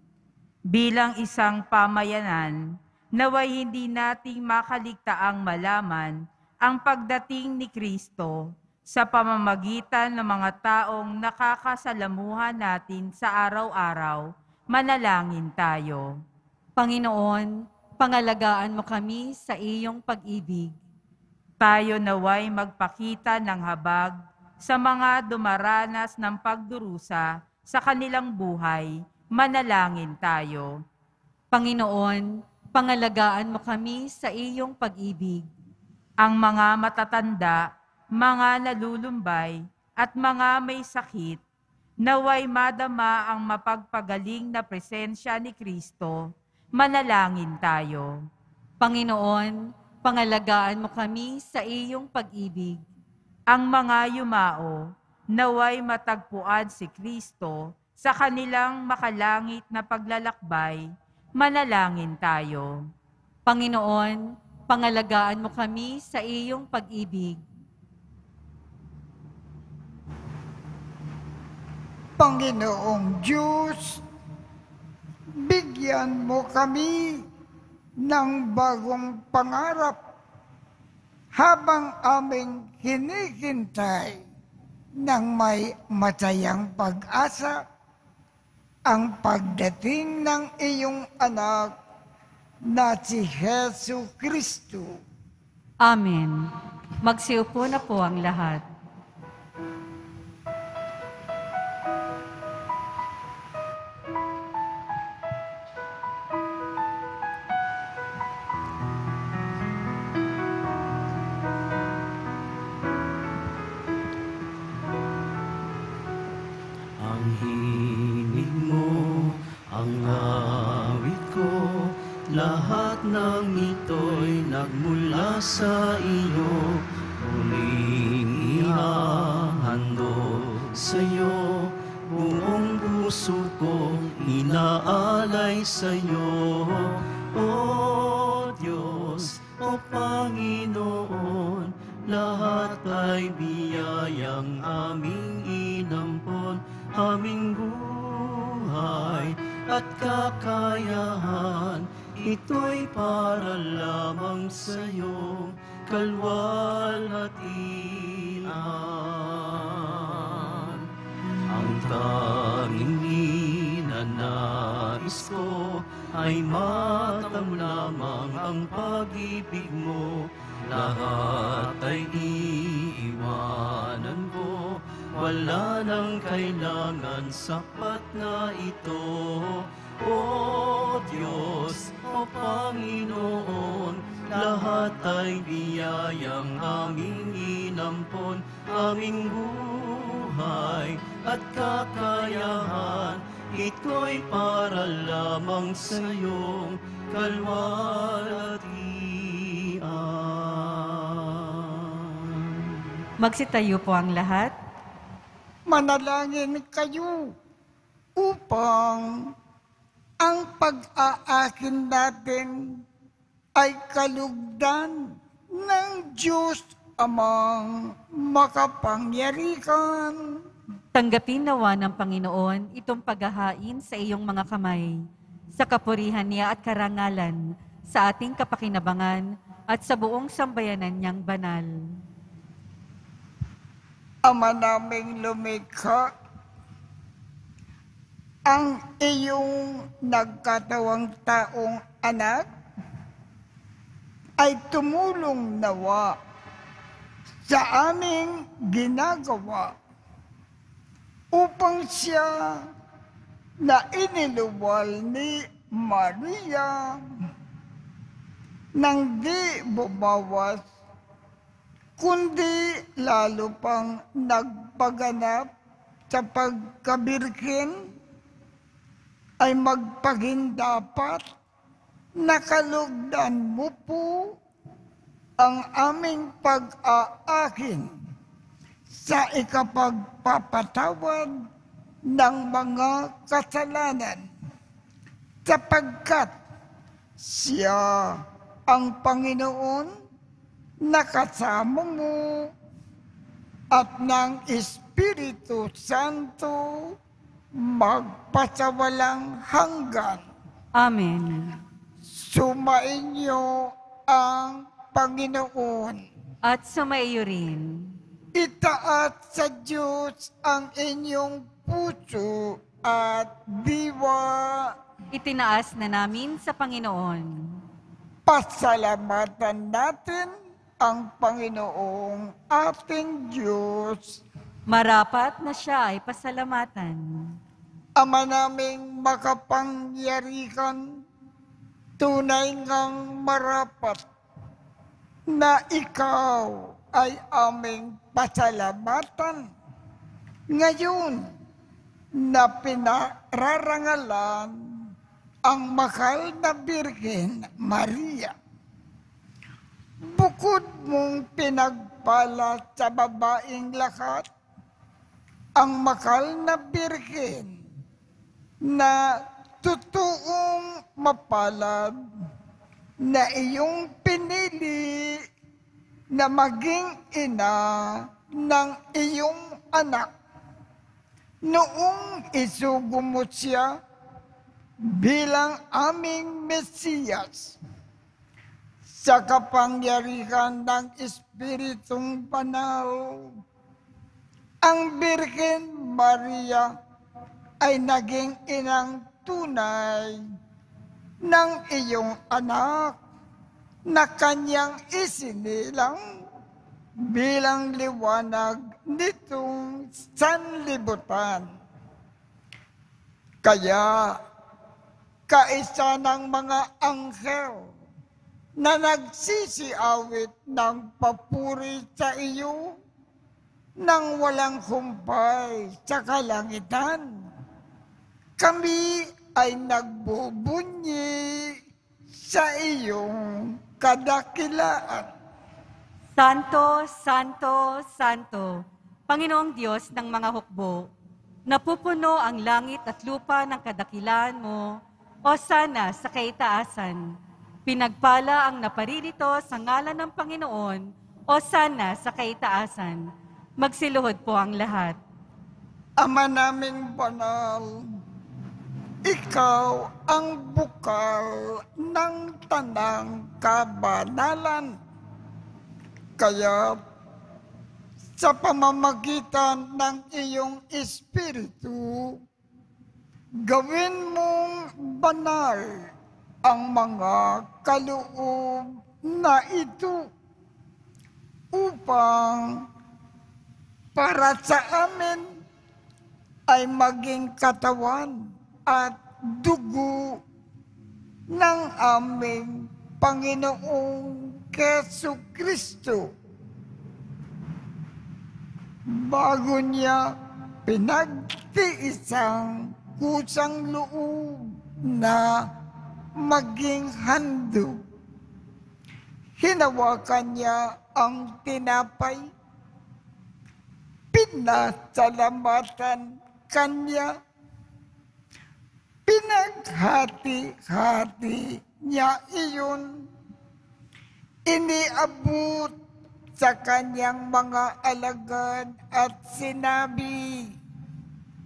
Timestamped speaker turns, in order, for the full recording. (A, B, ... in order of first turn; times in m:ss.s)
0:00.7-0:02.6 A
0:03.2-0:16.1 A
0:16.8-0:20.7 B
0:21.6-0:30.8 A
0:31.5-0:35.4 B
0:36.2-0:41.4 A
0:42.0-0:48.1 A
0:48.8-0:52.8 B
0:53.5-0:54.8 A
0:55.3-1:00.8 A
1:01.4-1:02.8 A
1:03.5-1:07.4 B
1:12.2-1:14.0 C
1:15.4-1:17.2 C
1:18.0-1:20.0 C
1:21.3-1:24.2 C
1:25.0-1:27.6 C
1:28.9-1:31.7 C
1:32.7-1:35.0 C
1:35.8-1:36.5 B
1:37.0-1:38.6 B
1:57.0-2:40.9 D
2:41.5-3:22.9 D
3:23.2-3:24.5 B
3:25.7-3:27.3 C
3:28.2-3:29.3 C
3:30.2-3:32.8 C
3:33.6-3:40.4 C
3:40.9-3:44.9 B
3:45.5-3:51.7 B
3:54.2-3:56.1 C
3:58.4-4:02.4 C
4:04.4-4:06.1 C
4:07.4-4:09.7 C
4:11.3-4:12.7 C
4:13.6-4:17.0 C
4:18.8-4:20.6 C
4:22.0-4:25.5 C
4:26.1-4:27.8 C
4:29.4-4:31.2 C
4:32.2-4:34.4 C
4:35.4-4:37.9 C
4:38.9-4:41.3 C
4:42.1-4:44.3 C
4:45.4-4:46.3 C
4:47.2-4:49.9 C
4:50.8-4:52.5 C
4:53.7-4:57.0 C
4:57.5-5:00.2 C
5:00.8-5:01.6 B
5:02.1-5:06.0 C
5:06.5-5:07.9 B
5:08.4-5:14.8 C
5:15.1-5:17.6 B
5:18.2-5:24.2 C
5:24.7-5:27.3 B
5:28.0-5:31.0 C
5:32.0-5:34.0 C
5:35.3-5:39.5 C
5:40.5-5:41.3 C
5:42.2-5:44.9 C
5:45.4-5:48.3 C
5:50.1-5:54.2 C
5:55.6-5:57.6 C
5:58.6-6:02.0 C
6:03.0-6:05.2 C
6:06.1-6:10.1 C
6:11.4-6:13.8 C
6:14.9-6:17.6 C
6:18.9-6:23.4 C
6:24.6-6:26.8 C
6:27.6-6:30.2 C
6:31.2-6:33.0 C
6:33.9-6:36.0 C
6:37.1-6:41.5 C
6:43.4-6:44.1 C
6:45.3-6:47.6 C
6:48.6-6:52.7 C
6:53.8-6:57.1 C
6:58.4-7:01.6 C
7:02.2-7:05.1 C
7:06.2-7:10.9 B
7:11.5-7:17.1 B
7:17.6-7:25.0 B
7:26.0-7:27.8 C
7:29.0-7:34.8 C
7:36.2-7:36.8 C
7:38.2-7:42.2 C
7:43.4-7:45.6 C
7:46.4-7:50.1 C
7:51.5-7:52.6 C
7:53.9-7:55.3 C
7:56.5-8:00.2 C
8:01.3-8:06.1 C
8:08.9-8:10.1 C
8:10.6-8:15.5 C
8:16.2-8:17.8 C
8:19.4-8:22.3 C
8:24.1-8:27.2 C
8:29.1-8:33.1 C
8:34.5-8:35.7 C
8:36.4-8:40.6 C